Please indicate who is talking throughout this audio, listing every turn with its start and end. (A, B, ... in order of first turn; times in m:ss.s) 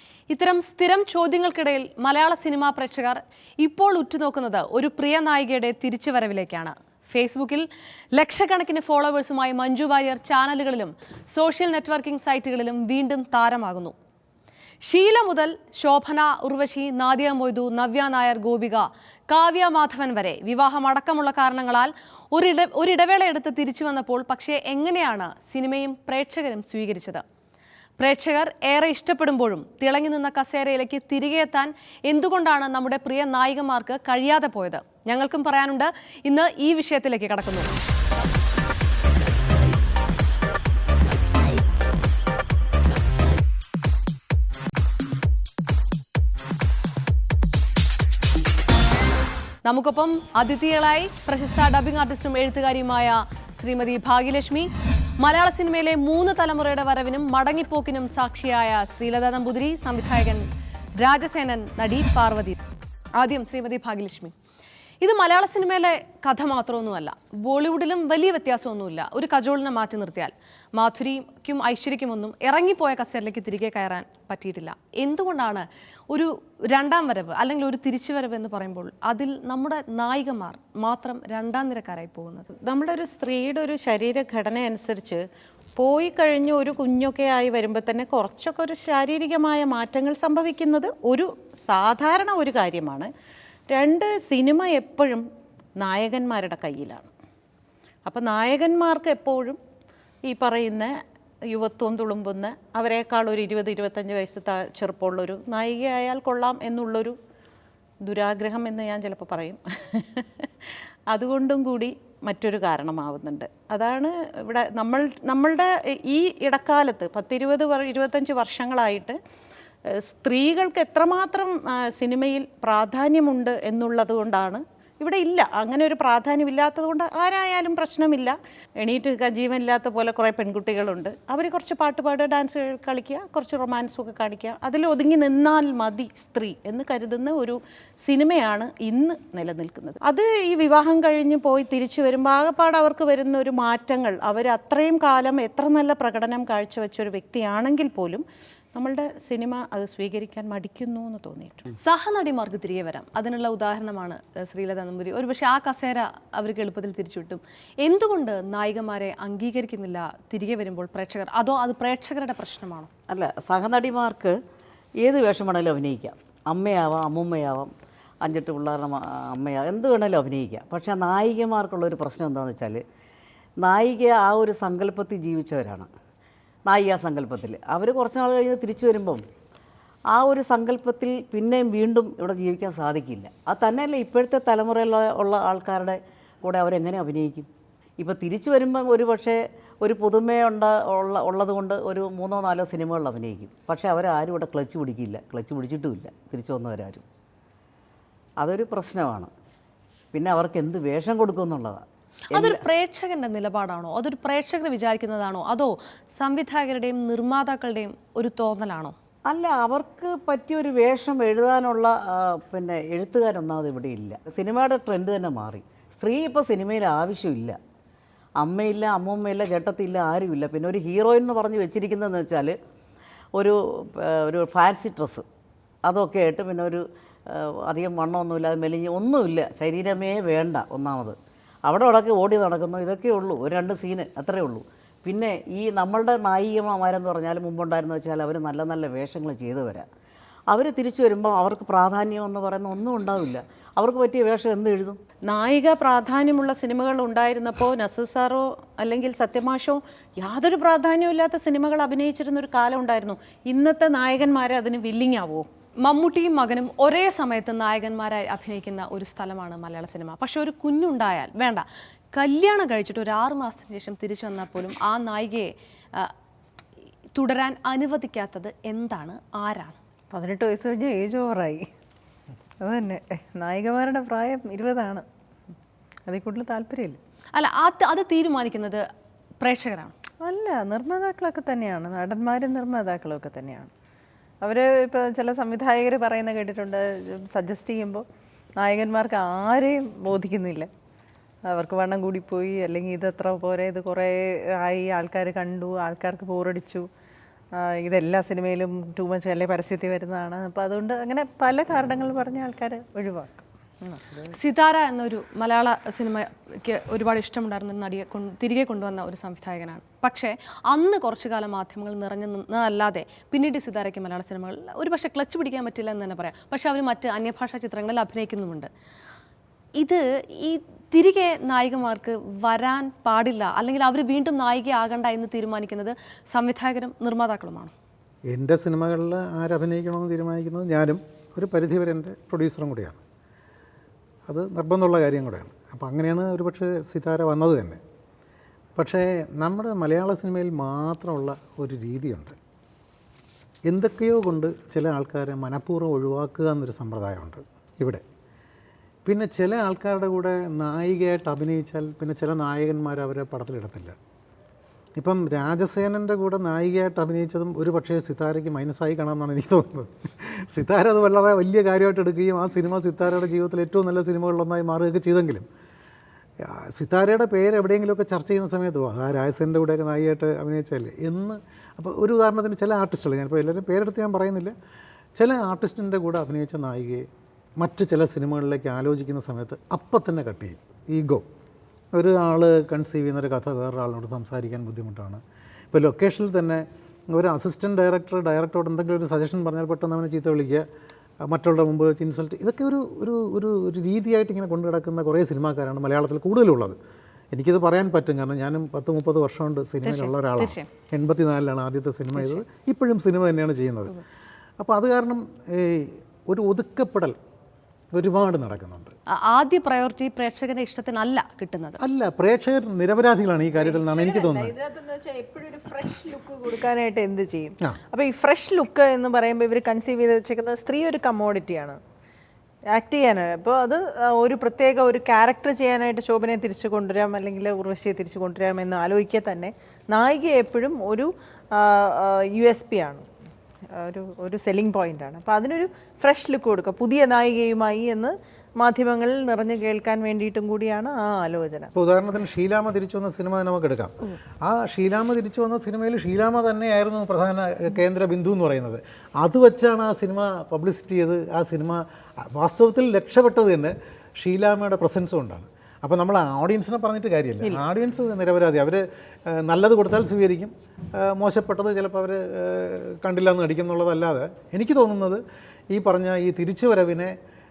0:00.3-0:13.9 A
0:14.8-0:27.2 A
0:28.0-0:37.7 A
0:49.6-0:54.7 A
0:55.2-1:00.4 A
1:01.0-1:02.6 A
1:03.2-1:04.3 A
1:05.0-1:22.5 A
1:22.6-1:25.2 B
1:25.8-1:33.1 B
1:33.7-1:35.2 B
1:35.8-1:37.1 B
1:38.1-1:39.6 B
1:40.3-1:40.9 B
1:41.5-1:47.2 B
1:48.0-1:59.2 B
1:59.9-2:28.2 B
2:28.8-2:31.7 B
2:31.8-2:42.9 A
2:43.1-2:44.3 C
2:45.0-2:47.7 C
2:48.2-2:52.8 C
2:53.6-2:55.9 C
2:56.7-2:59.2 C
3:00.1-3:07.5 C
3:08.0-3:17.0 C
3:18.4-3:19.3 C
3:20.1-3:22.6 C
3:22.3-3:29.0 A
3:29.3-3:37.6 C
3:38.4-3:42.5 C
3:43.4-3:45.2 C
3:45.9-3:46.8 C
3:47.3-3:59.9 C
4:00.5-4:05.0 C
4:05.3-4:15.5 B
4:15.8-4:26.1 A
4:27.1-4:29.8 A
4:30.1-4:31.6 D
4:32.6-4:35.0 D
4:36.1-4:37.0 D
4:37.3-4:38.8 A
4:39.4-4:39.9 A
4:40.2-4:43.7 D
4:44.4-4:48.0 D
4:48.6-4:50.7 D
4:51.5-4:56.9 D
4:57.6-5:04.0 D
5:04.3-5:18.7 A
5:19.8-5:27.7 A
5:28.3-5:33.0 E
5:34.3-5:37.8 E
5:38.8-5:42.4 E
5:43.7-5:48.0 E
5:49.1-5:54.0 E
5:55.0-6:05.5 E
6:06.4-6:14.5 E
6:15.2-6:17.1 E
6:17.6-6:21.2 E
6:21.9-6:30.7 E
6:31.3-6:36.8 E
6:37.3-6:44.0 E
6:39.8-6:40.7 A
6:44.6-6:47.2 E
6:47.9-6:48.9 E
6:49.2-6:51.8 A
6:51.8-6:54.5 E
6:53.6-7:01.8 D
7:02.7-7:13.0 D
7:13.8-7:21.7 D
7:21.7-7:47.2 E